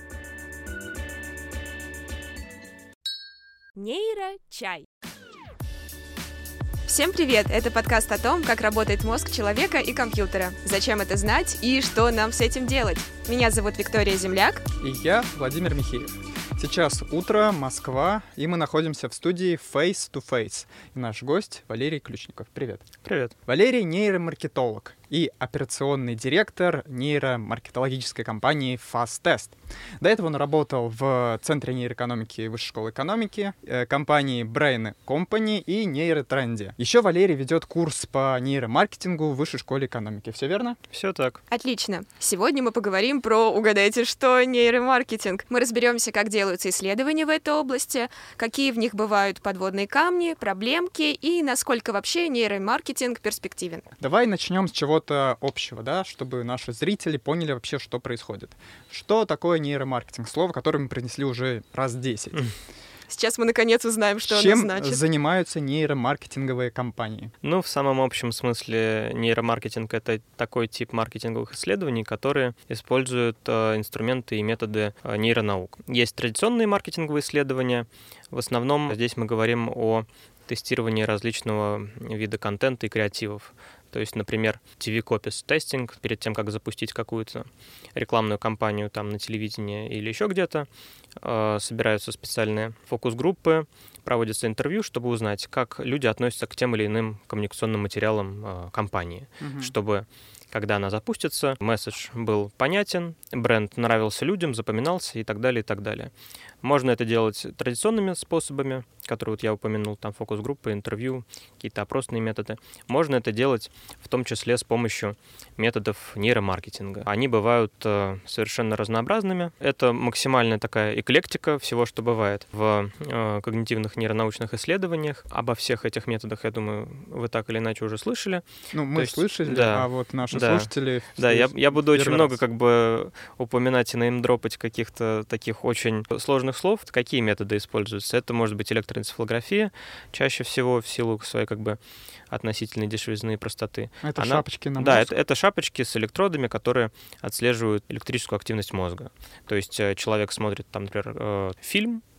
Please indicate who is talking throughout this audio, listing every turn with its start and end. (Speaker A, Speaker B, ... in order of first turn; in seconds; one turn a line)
Speaker A: 3.8-4.8
Speaker A: 6.9-14.6
Speaker B: 14.8-22.9
Speaker C: 23.0-23.3
Speaker B: 23.4-40.8
Speaker C: 40.9-41.4
Speaker A: 41.5-53.9
Speaker B: 54.0-62.5
Speaker A: 63.1-65.0
Speaker B: 64.2-67.3
Speaker C: 67.4-90.7
Speaker C: 91.2-141.8
Speaker B: 99.4-99.7
Speaker B: 128.7-132.4
Speaker C: 142.3-152.0
Speaker B: 144.0-145.1